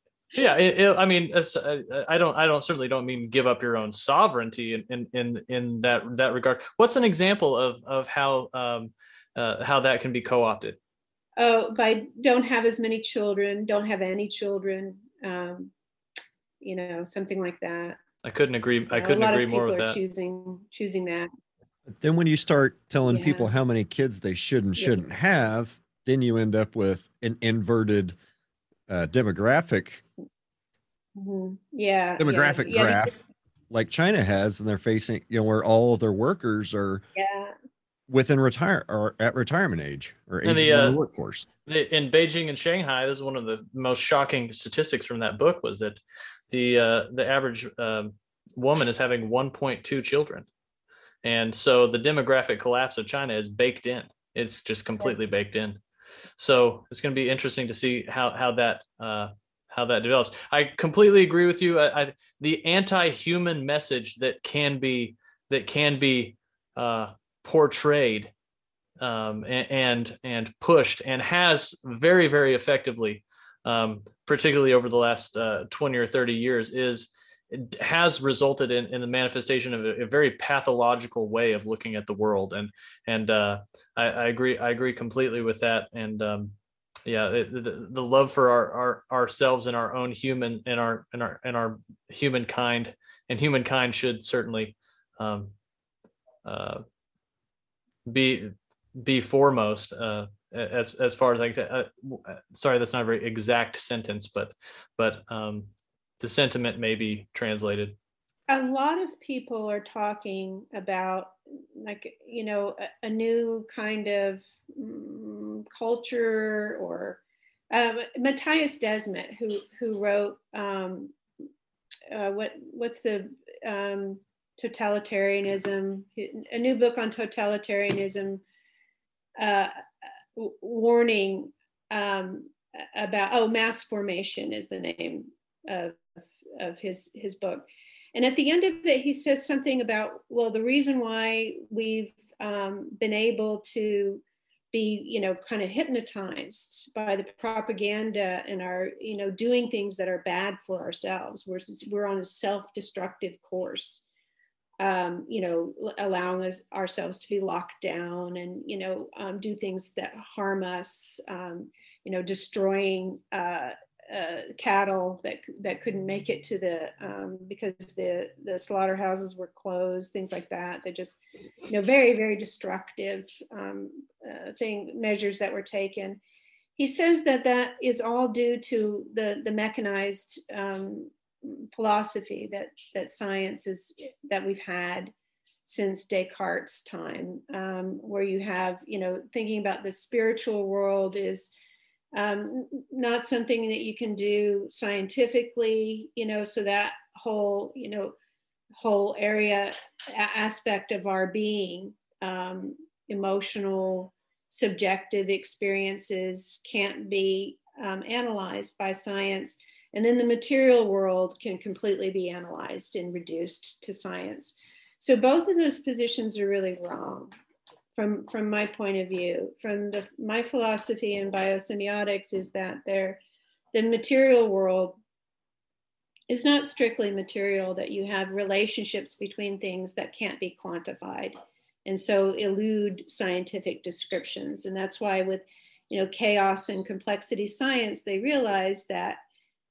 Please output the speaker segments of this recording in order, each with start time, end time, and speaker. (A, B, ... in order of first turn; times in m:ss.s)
0:00.4-0:10.8 A
0:11.4-0:15.7 B
0:16.6-0:18.0 B
0:18.2-0:20.0 A
0:18.9-0:21.3 B
0:21.9-0:28.2 C
0:23.1-0:23.5 B
0:28.9-0:30.0 C
0:31.2-0:33.1 B
0:32.2-0:33.2 C
0:33.7-0:37.0 C
0:37.2-0:37.5 B
0:38.1-0:41.5 C
0:40.4-0:41.0 A
0:41.7-0:50.5 A
0:51.2-0:55.8 A
0:56.4-1:08.3 A
1:09.0-1:26.6 A
1:27.1-1:35.5 A
1:36.4-1:36.8 A
1:38.1-1:48.0 A
1:48.5-1:57.2 B
1:57.7-2:01.2 B
2:02.1-2:08.4 B
2:09.4-2:09.7 B
2:10.4-2:34.0 B
2:34.8-2:56.2 B
2:56.8-3:05.1 B
3:05.6-3:11.5 B
3:12.2-3:18.2 B
3:18.8-3:37.3 B
3:38.0-3:43.2 B
3:43.7-3:45.0 B
3:46.3-3:51.4 B
3:51.9-3:59.2 B